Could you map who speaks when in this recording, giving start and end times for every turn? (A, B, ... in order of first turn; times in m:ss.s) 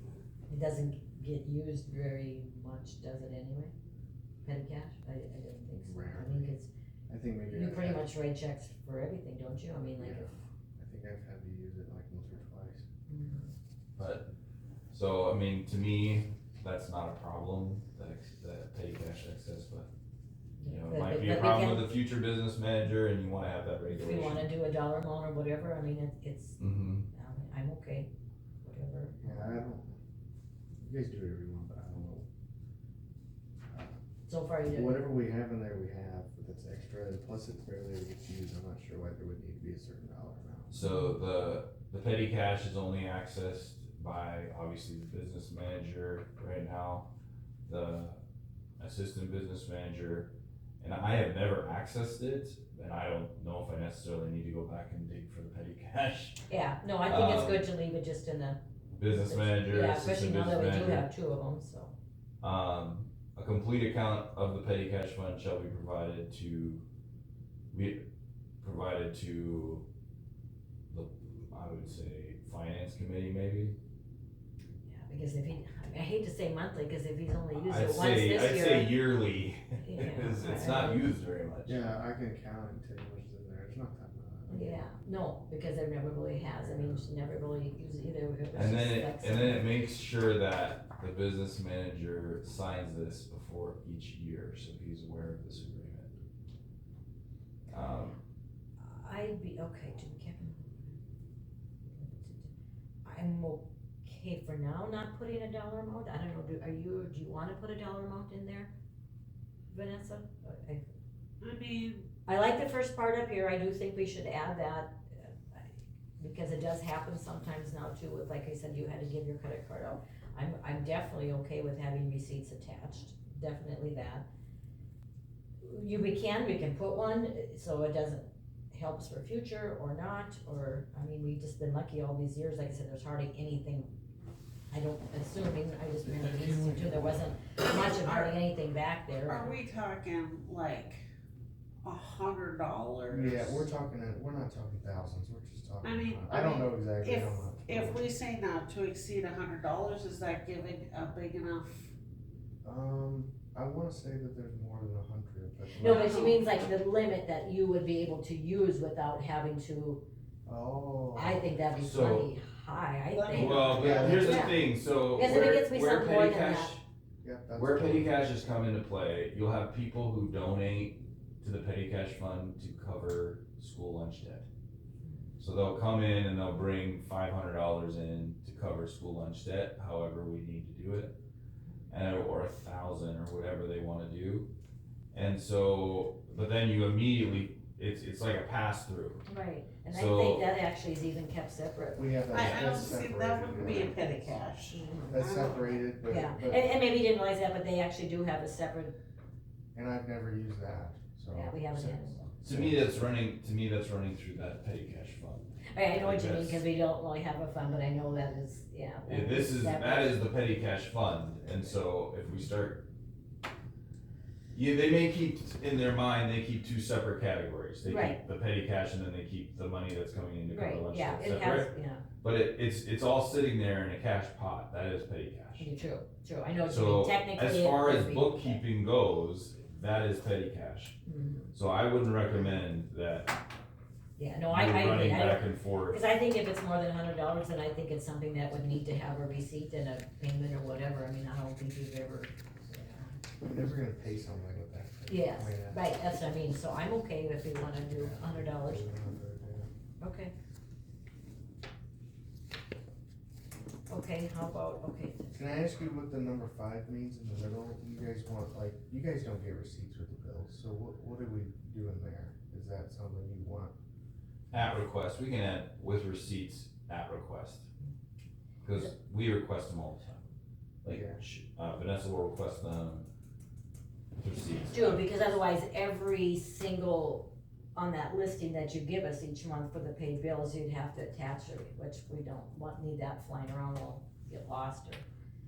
0:00.5-0:03.7 A
0:04.4-0:06.7 A
0:05.8-0:06.5 B
0:07.1-0:08.1 B
0:07.5-0:10.3 A
0:10.0-0:12.8 B
0:13.1-0:13.5 A
0:14.0-0:14.3 C
0:14.9-0:19.9 C
0:20.6-0:21.9 A
0:20.6-0:24.5 C
0:23.9-0:28.1 A
0:26.6-0:27.0 C
0:28.6-0:29.6 A
0:29.2-0:30.0 B
0:30.8-0:32.2 B
0:33.7-0:33.9 B
0:34.3-0:35.1 A
0:34.6-0:40.8 B
0:40.7-0:47.1 C
0:40.8-0:41.2 A
0:47.7-0:48.2 C
0:48.8-0:56.4 C
0:56.5-1:01.9 A
0:57.0-0:57.7 C
0:58.9-1:01.1 C
1:02.4-1:06.8 C
1:07.7-1:08.0 C
1:08.6-1:09.9 C
1:10.9-1:13.8 C
1:14.8-1:18.9 A
1:17.6-1:21.8 C
1:19.8-1:21.1 A
1:21.6-1:24.8 B
1:24.5-1:29.7 A
1:26.6-1:27.1 B
1:28.5-1:36.2 C
1:37.7-1:38.2 C
1:38.8-1:41.0 A
1:41.8-1:42.5 A
1:43.0-1:48.7 A
1:49.7-1:50.8 A
1:51.4-1:52.1 D
1:52.3-1:55.6 A
1:56.2-2:04.2 A
2:05.6-2:13.9 A
2:14.7-2:19.6 A
2:16.0-2:17.2 B
2:17.6-2:18.4 D
2:19.2-2:21.0 D
2:21.8-2:23.6 D
2:23.1-2:28.0 B
2:25.8-2:31.9 D
2:32.6-2:36.1 B
2:35.8-2:40.0 A
2:35.8-2:36.4 D
2:40.4-2:41.6 B
2:41.1-2:46.8 A
2:41.7-2:42.3 C
2:43.1-2:44.0 D
2:43.3-2:46.8 C
2:43.7-2:44.5 B
2:47.2-2:48.2 B
2:47.5-2:54.5 C
2:55.4-3:01.1 C
3:01.9-3:04.5 C
3:05.1-3:09.2 C
3:09.2-3:12.1 A
3:09.9-3:10.5 C
3:12.0-3:14.4 B
3:12.3-3:15.9 D
3:12.4-3:12.7 C
3:14.7-3:15.1 A
3:15.1-3:16.7 B
3:16.1-3:19.0 A
3:19.7-3:23.0 B
3:21.3-3:22.2 A
3:22.4-3:26.6 C
3:25.7-3:30.3 A
3:29.0-3:32.8 C
3:34.5-3:41.7 C
3:37.8-3:38.2 A
3:40.5-3:42.0 A
3:42.2-3:45.7 C
3:45.6-3:48.6 A
3:46.6-3:50.9 C
3:51.0-3:51.5 A
3:51.5-3:53.4 C
3:54.2-4:03.1 A
3:54.5-3:56.0 C
4:03.4-4:05.8 B
4:05.1-4:08.8 A
4:07.7-4:09.7 B
4:10.0-4:10.3 A
4:13.9-4:15.6 A
4:15.3-4:23.7 B
4:24.5-4:27.7 C
4:28.6-4:30.3 C
4:30.8-4:33.1 C
4:30.8-4:31.2 B
4:34.2-4:35.1 C
4:34.7-4:45.0 A